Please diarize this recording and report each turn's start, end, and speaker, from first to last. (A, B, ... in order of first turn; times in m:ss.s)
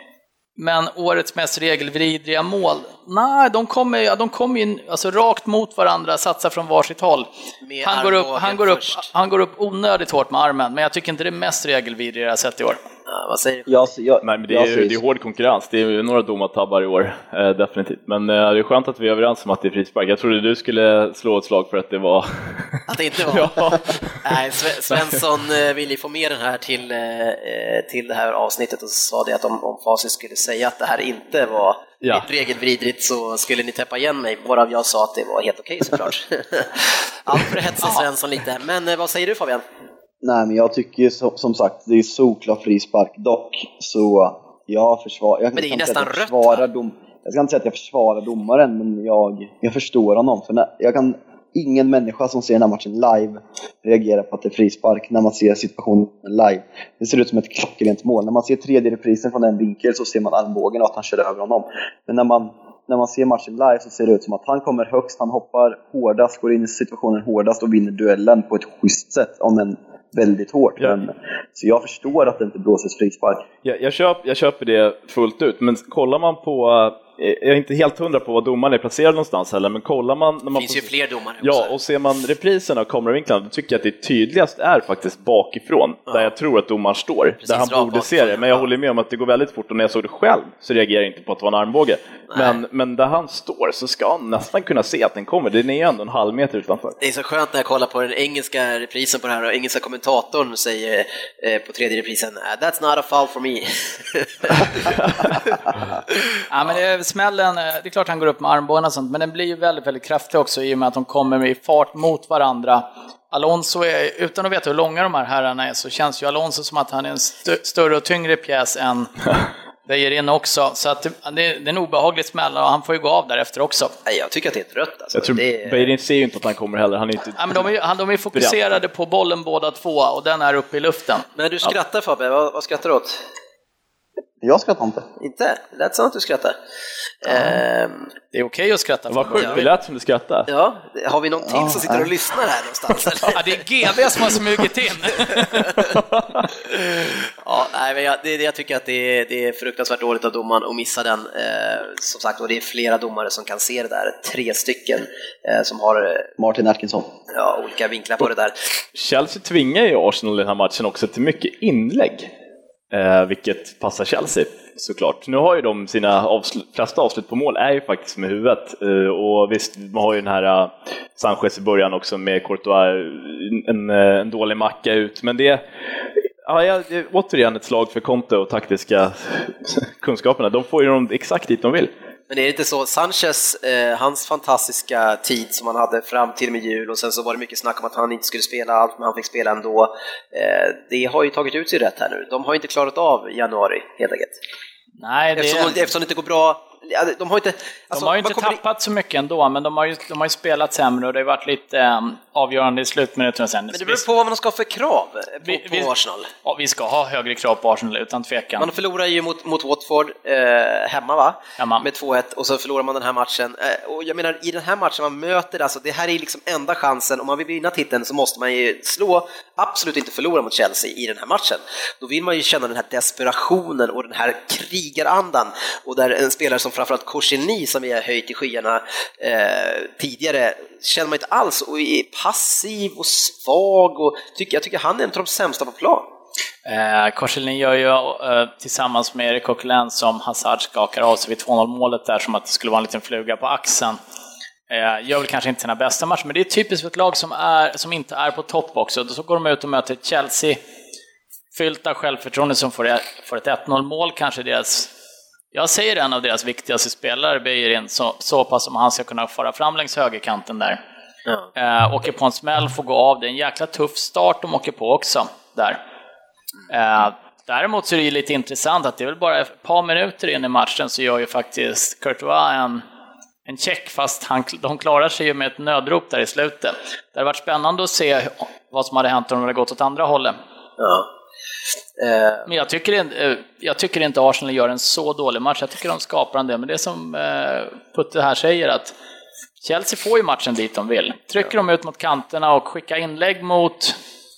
0:00.6-0:07.3 A
0:07.6-0:09.1 B
0:07.8-0:12.8 A
0:13.1-0:13.9 B
0:13.7-0:15.0 C
0:14.2-0:24.3 D
0:22.9-0:39.6 B
0:24.9-0:25.2 D
0:40.2-1:13.4 C
0:45.5-0:46.6 B
1:13.6-1:20.9 D
1:20.5-1:21.7 B
1:21.4-1:37.0 D
1:27.4-1:28.7 B
1:32.3-1:32.6 B
1:37.0-1:45.0 B
1:45.0-1:45.4 D
1:46.5-1:59.1 A
1:59.8-2:03.9 A
2:04.0-2:05.9 B
2:05.1-2:07.6 D
2:07.4-2:11.2 A
2:08.3-2:08.7 D
2:11.4-2:13.2 B
2:14.4-2:15.1 C
2:15.2-2:16.5 B
2:17.2-2:18.1 B
2:17.2-2:17.6 C
2:18.3-2:19.7 A
2:19.1-2:20.5 D
2:20.5-2:23.4 B
2:21.4-2:22.1 C
2:23.3-2:25.7 A
2:25.3-2:25.9 B
2:25.9-2:26.5 D
2:26.6-2:36.3 B
2:36.4-2:37.1 C
2:37.3-2:38.7 B
2:38.9-2:42.3 D
2:42.9-2:55.6 D
2:56.4-3:01.9 D
3:02.3-3:14.4 B
3:15.0-3:15.8 A
3:15.4-3:18.6 B
3:17.9-3:24.0 A
3:23.7-3:26.3 B
3:25.4-3:25.9 A
3:26.4-3:28.7 A
3:28.6-3:56.1 B
3:31.6-3:31.8 A
3:56.6-4:04.0 A
4:04.7-4:10.6 A
4:11.5-4:14.9 A
4:15.5-4:20.8 A
4:21.5-4:25.8 A
4:26.7-4:32.8 A
4:33.4-4:40.4 A
4:40.8-4:41.1 B
4:42.0-4:42.5 B
4:42.4-4:48.9 A
4:49.6-4:54.0 A